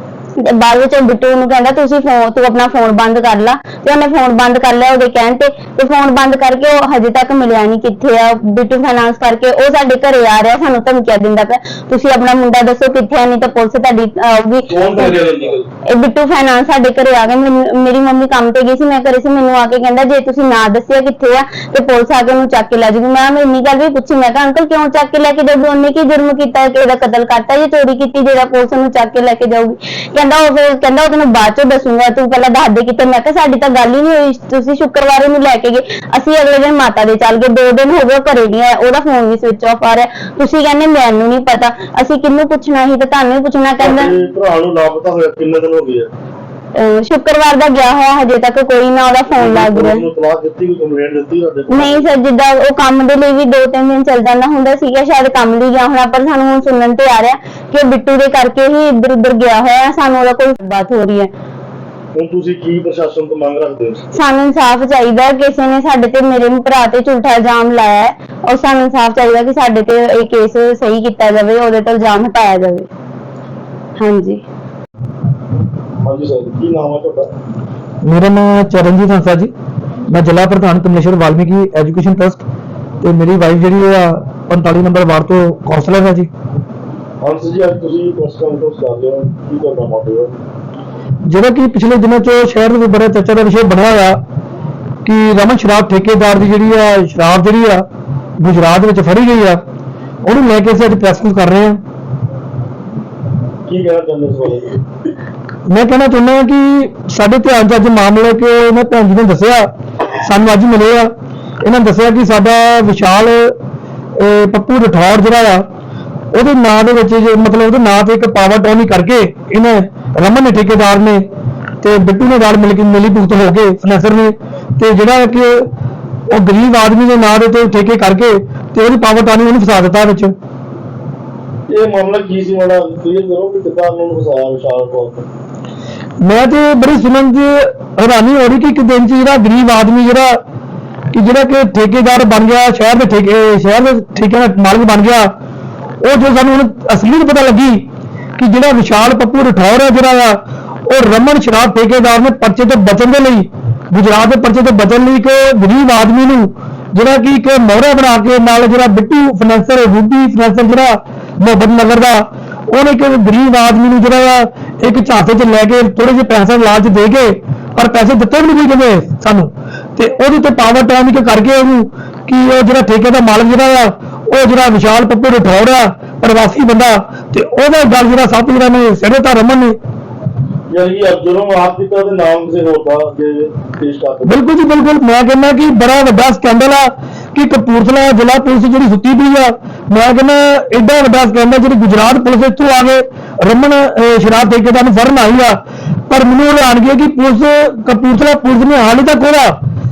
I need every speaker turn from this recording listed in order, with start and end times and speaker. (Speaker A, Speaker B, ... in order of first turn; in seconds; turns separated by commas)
Speaker A: 0.4-15.2, Speaker B: 14.7-15.6, Speaker A: 15.9-44.1, Speaker B: 43.8-46.1, Speaker A: 46.8-50.0, Speaker B: 49.3-52.1, Speaker A: 51.7-61.3, Speaker B: 62.1-64.1, Speaker A: 64.1-72.9, Speaker A: 74.0-74.4, Speaker B: 76.0-77.3, Speaker C: 78.0-79.5, Speaker C: 80.1-82.4, Speaker C: 83.0-86.3, Speaker B: 87.2-90.3, Speaker C: 91.3-94.2, Speaker C: 95.0-97.8, Speaker C: 98.4-99.6, Speaker C: 100.2-101.8, Speaker B: 103.7-104.8, Speaker C: 105.7-109.7, Speaker C: 110.2-111.1, Speaker C: 111.6-113.5, Speaker C: 114.2-115.7, Speaker C: 116.3-121.3, Speaker C: 121.8-125.7, Speaker C: 126.3-130.3, Speaker B: 131.7-135.3, Speaker C: 136.2-140.4, Speaker C: 141.1-145.3, Speaker C: 146.0-147.9, Speaker C: 148.4-179.8, Speaker B: 180.7-184.4, Speaker C: 184.3-195.6, Speaker C: 196.1-199.6